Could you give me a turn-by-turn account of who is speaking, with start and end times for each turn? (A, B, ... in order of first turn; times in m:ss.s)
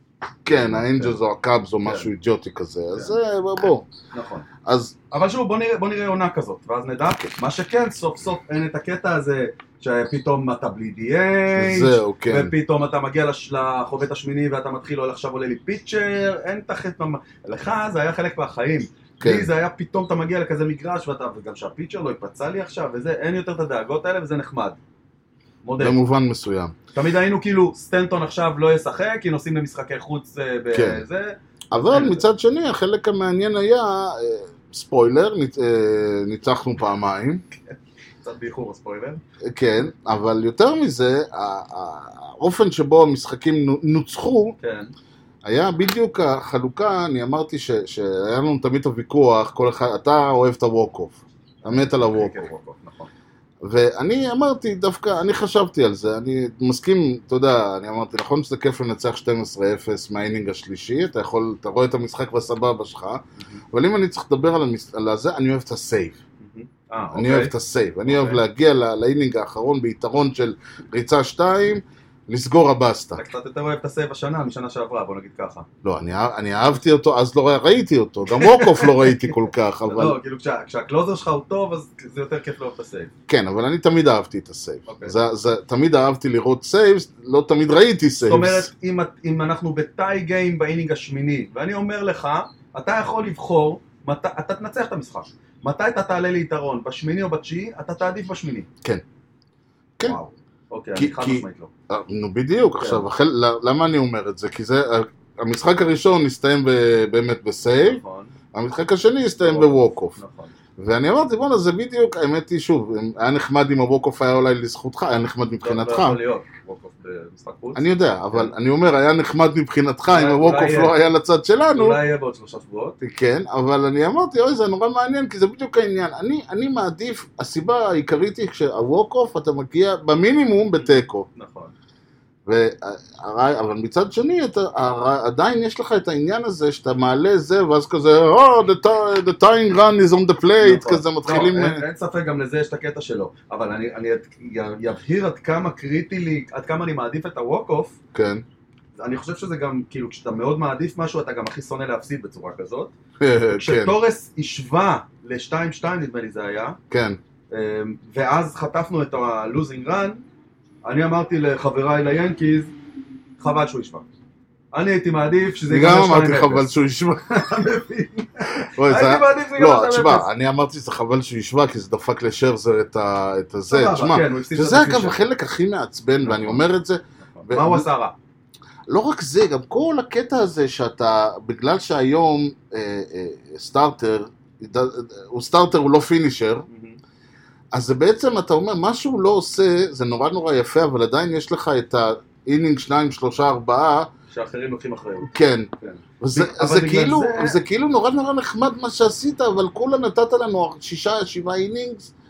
0:00.4-0:03.9 A
0:00.5-0:01.2 B
0:01.8-0:02.1 B
0:04.1-0:04.5 B
0:04.6-0:04.9 A
0:05.1-0:24.8 B
0:11.5-0:12.5 A
0:19.2-0:19.5 A
0:25.6-0:26.0 B
0:25.8-0:26.8 A
0:26.9-0:31.4 B
0:30.7-0:31.0 A
0:31.7-0:37.4 A
0:31.9-0:32.2 B
0:37.7-0:39.2 B
0:39.4-0:44.6 A
0:44.6-0:44.9 B
0:45.4-0:52.4 A
0:51.6-0:53.1 B
0:53.6-1:06.2 A
1:06.4-1:07.5 B
1:07.1-1:13.2 A
1:08.1-1:08.4 B
1:13.2-1:15.7 B
1:15.8-1:20.2 A
1:18.3-1:19.3 B
1:19.9-1:23.1 B
1:23.3-1:28.7 A
1:24.9-1:25.1 B
1:28.2-1:38.7 B
1:40.0-1:41.7 B
1:40.9-1:48.0 A
1:42.8-1:43.0 B
1:47.7-1:48.3 B
1:48.5-1:50.2 A
1:49.4-1:50.5 B
1:50.8-1:56.2 A
1:55.6-1:58.5 B
1:57.7-2:02.0 A
2:00.1-2:00.9 B
2:01.7-2:03.0 B
2:03.0-2:11.3 A
2:10.8-2:11.7 B
2:12.4-2:21.8 A
2:20.6-2:28.0 B
2:28.1-2:28.4 A
2:29.0-2:32.9 B
2:33.2-2:34.0 A
2:33.5-2:36.8 B
2:36.9-2:37.2 A
2:37.5-2:40.2 B
2:40.8-2:42.7 B
2:43.4-2:44.1 B
2:44.7-2:46.7 B
2:45.7-2:47.3 A
2:47.3-2:50.3 B
2:48.5-2:57.9 A
2:53.7-2:55.2 B
2:56.2-2:56.6 B
2:57.2-2:58.1 B
2:58.9-3:06.7 A
3:06.7-3:07.0 B
3:07.7-3:14.1 A
3:14.3-3:17.6 B
3:15.3-3:15.7 A
3:16.2-3:22.1 A